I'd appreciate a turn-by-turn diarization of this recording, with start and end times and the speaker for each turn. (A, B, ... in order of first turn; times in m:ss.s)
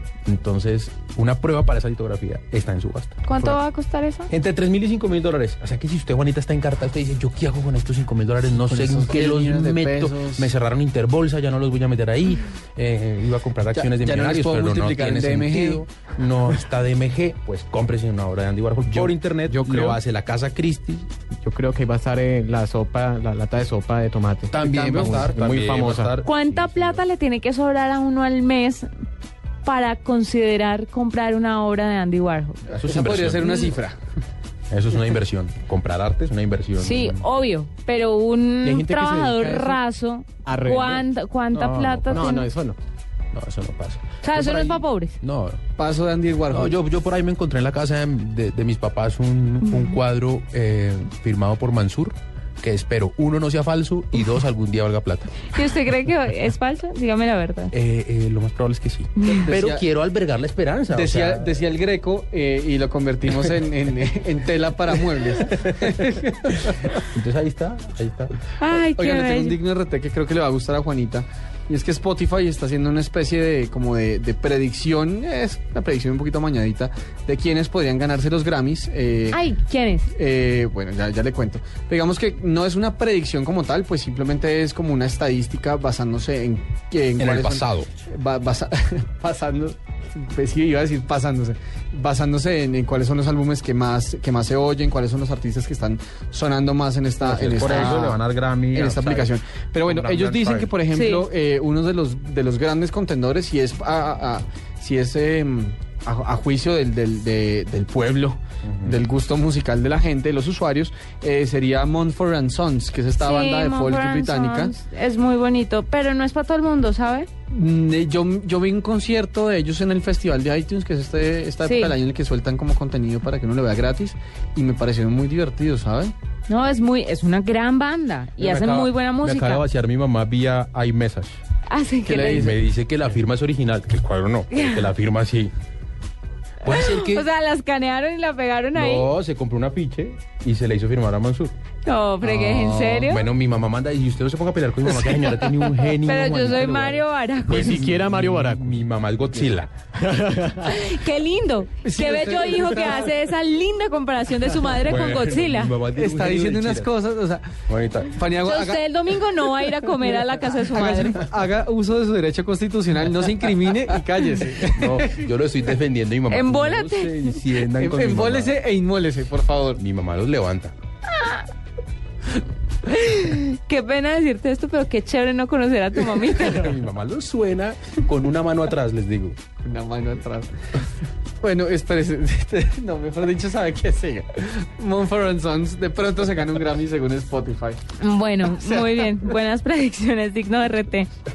0:00.2-0:03.6 A
0:03.2-0:04.3 B
0:04.3-0:21.1 A
0:08.5-0:10.5 C
0:13.7-0:15.9 C
0:18.9-0:19.9 C
0:21.4-0:26.1 D
0:24.5-0:27.0 A
0:24.6-0:25.3 C
0:26.2-0:28.9 B
0:29.6-0:32.7 B
0:32.7-0:34.0 C
0:32.8-0:33.7 A
0:34.7-0:37.2 A
0:36.8-0:42.5 B
0:38.6-0:39.8 D
0:40.4-0:41.0 D
0:41.5-0:42.3 A
0:42.1-0:42.8 D
0:43.3-0:45.6 A
0:44.2-0:45.2 B
0:45.8-0:46.7 C
0:46.5-0:55.5 A
0:55.5-0:57.7 B
0:57.7-1:01.5 A
0:59.3-0:59.8 C
1:00.9-1:07.0 C
1:07.1-1:08.3 A
1:08.6-1:09.6 B
1:08.7-1:19.4 C
1:19.3-1:20.1 B
1:20.1-1:38.2 C
1:27.2-1:27.9 A
1:37.2-1:40.7 A
1:38.7-1:54.7 C
1:40.9-1:41.2 B
1:48.6-1:49.0 A
1:53.2-1:57.3 B
1:57.5-2:06.1 C
2:01.6-2:01.9 B
2:06.5-2:09.6 B
2:08.4-2:11.4 A
2:11.7-2:12.5 B
2:12.0-2:12.6 C
2:12.3-2:15.5 A
2:14.5-2:14.9 B
2:16.6-2:17.3 A
2:16.6-2:19.1 B
2:18.7-2:21.5 A
2:21.8-2:23.2 B
2:22.2-2:23.0 C
2:22.7-2:29.7 A
2:25.0-2:25.3 C
2:25.9-2:27.8 B
2:27.5-2:28.7 D
2:30.0-2:30.7 D
2:30.6-2:35.7 B
2:31.8-2:33.1 C
2:34.8-2:36.9 A
2:35.9-2:37.4 C
2:37.7-2:38.2 A
2:38.1-2:45.2 C
2:38.4-2:41.2 B
2:44.7-2:48.5 A
2:46.3-2:47.4 B
2:47.7-2:49.8 C
2:49.8-2:50.7 A
2:52.9-2:56.8 B
2:56.3-2:59.4 A
2:59.6-3:00.5 C
3:01.4-3:07.8 C
3:08.0-3:11.1 B
3:08.4-3:09.2 C